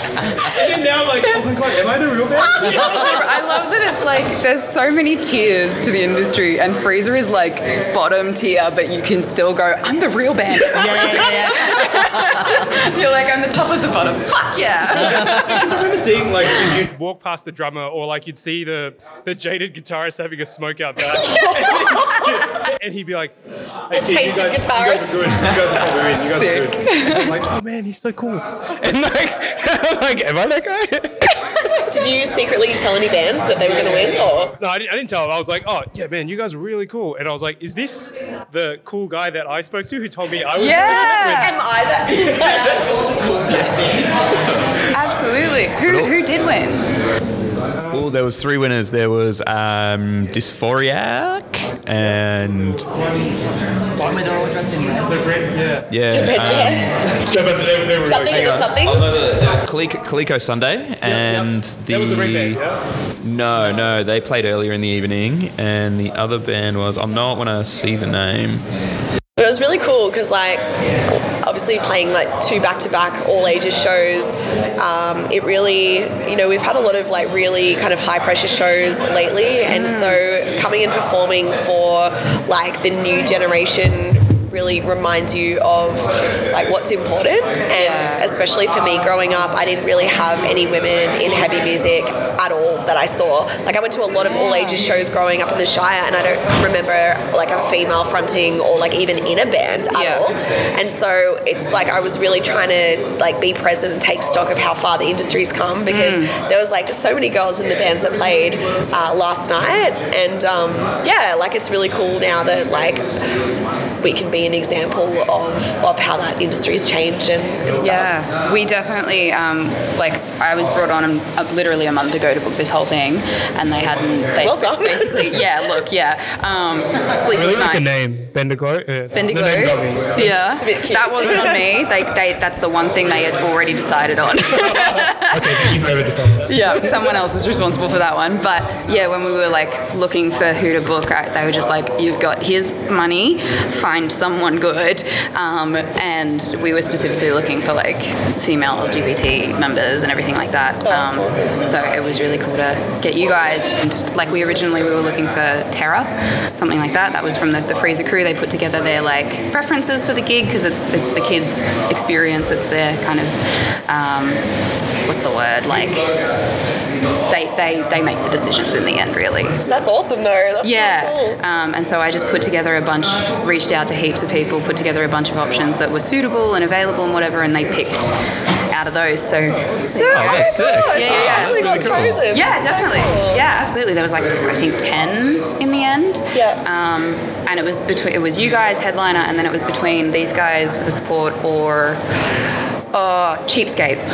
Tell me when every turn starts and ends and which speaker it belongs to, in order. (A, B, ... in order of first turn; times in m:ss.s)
0:00.3-0:03.4 A
0:02.5-0:15.8 B
0:10.6-0:12.7 C
0:15.0-0:15.5 C
0:15.0-0:23.3 A
0:21.1-0:22.3 D
0:23.9-0:31.3 A
0:23.9-0:25.6 D
0:26.2-0:27.3 B
0:31.4-0:34.6 D
0:34.6-0:41.6 A
0:40.5-0:41.6 B
0:40.9-0:42.9 D
0:42.3-0:44.3 C
0:44.9-0:46.9 B
0:45.8-0:46.1 E
0:47.8-0:48.1 A
0:47.9-0:52.9 E
0:52.9-0:53.4 A
0:54.0-0:54.3 A
0:54.0-0:55.2 C
0:55.0-0:55.9 A
0:55.9-0:57.0 E
0:56.1-0:59.2 D
0:57.2-0:58.5 A
0:58.1-1:02.6 E
1:01.0-1:02.8 A
1:03.2-1:08.6 E
1:09.4-1:53.4 D
1:19.7-1:20.2 B
1:27.7-1:28.3 B
1:34.3-1:34.9 B
1:39.9-1:40.3 B
1:45.9-1:46.3 B
1:54.0-1:58.1 D
1:57.8-2:07.9 B
2:04.4-2:05.5 D
2:07.3-2:10.3 A
2:09.1-2:15.8 B
2:10.4-2:11.6 D
2:14.5-2:16.5 A
2:16.4-2:43.3 B
2:30.8-2:31.6 D
2:43.8-2:44.4 B
2:45.0-2:46.1 B
2:47.3-2:49.6 B
2:49.6-2:51.4 D
2:50.6-2:58.1 B
2:58.7-3:12.0 B
2:59.5-3:00.1 A
2:59.9-3:03.4 D
3:00.1-3:02.2 E
3:01.1-3:02.0 A
3:06.3-3:06.6 D
3:12.9-3:14.0 B